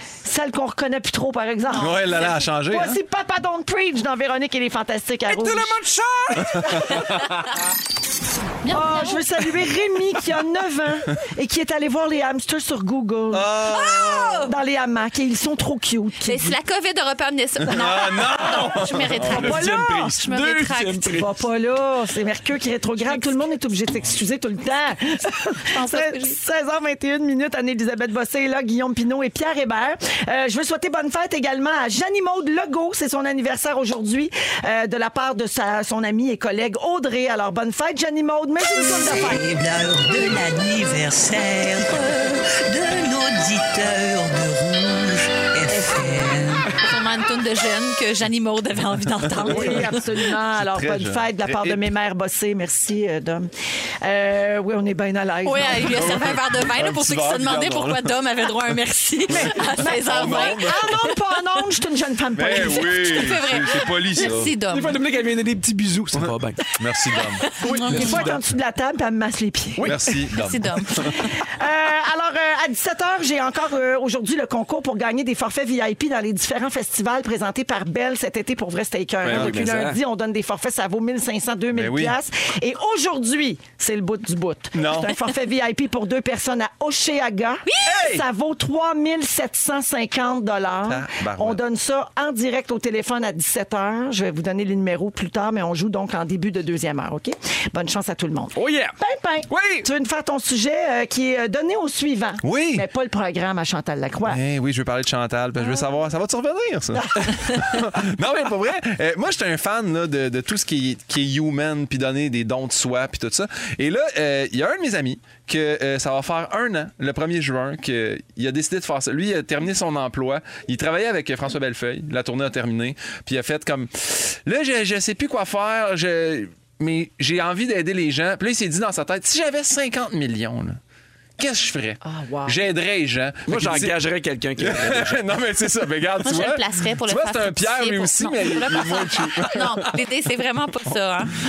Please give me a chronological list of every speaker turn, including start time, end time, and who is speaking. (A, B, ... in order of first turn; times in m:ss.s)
0:00.2-0:02.0 A
0:01.8-0:03.0 B
0:01.8-0:02.4 C
0:02.7-0:05.8 A
0:05.3-0:07.0 D
0:06.5-0:07.4 B
0:08.6-0:09.3 C
0:08.7-0:13.5 A
0:13.3-0:14.5 B
0:13.7-0:14.5 C
0:14.4-0:16.6 A
0:16.2-0:21.1 C
0:17.7-0:19.6 B
0:19.2-0:21.3 D
0:19.3-0:20.2 A
0:21.1-0:39.4 A
0:25.7-0:26.4 C
0:39.2-0:42.1 E
0:42.7-0:46.6 E
0:46.7-0:50.0 C
0:49.4-0:53.5 A
0:49.4-0:49.9 B
0:50.6-0:51.9 B
0:54.0-0:56.1 A
0:55.4-1:01.2 C
0:55.8-0:58.2 B
0:59.3-1:03.3 A
0:59.3-1:01.0 B
1:02.4-1:04.5 B
1:02.5-1:05.0 C
1:04.3-1:06.7 D
1:06.2-1:07.4 B
1:07.4-1:08.2 C
1:07.5-1:08.4 D
1:07.8-1:10.0 A
1:09.8-1:11.2 B
1:10.3-1:11.3 C
1:11.2-1:44.4 A
1:19.2-1:19.6 B
1:19.2-1:20.0 D
1:21.7-1:22.2 B
1:24.7-1:25.2 B
1:27.8-1:28.2 B
1:30.9-1:31.6 B
1:38.6-1:39.0 D
1:39.5-1:39.9 D
1:42.4-1:42.8 B
1:44.3-2:10.8 B
1:47.0-1:47.3 A
2:11.4-2:14.0 B
2:12.0-2:12.6 A
2:13.5-2:15.2 D
2:14.6-2:20.0 B
2:16.2-2:21.4 C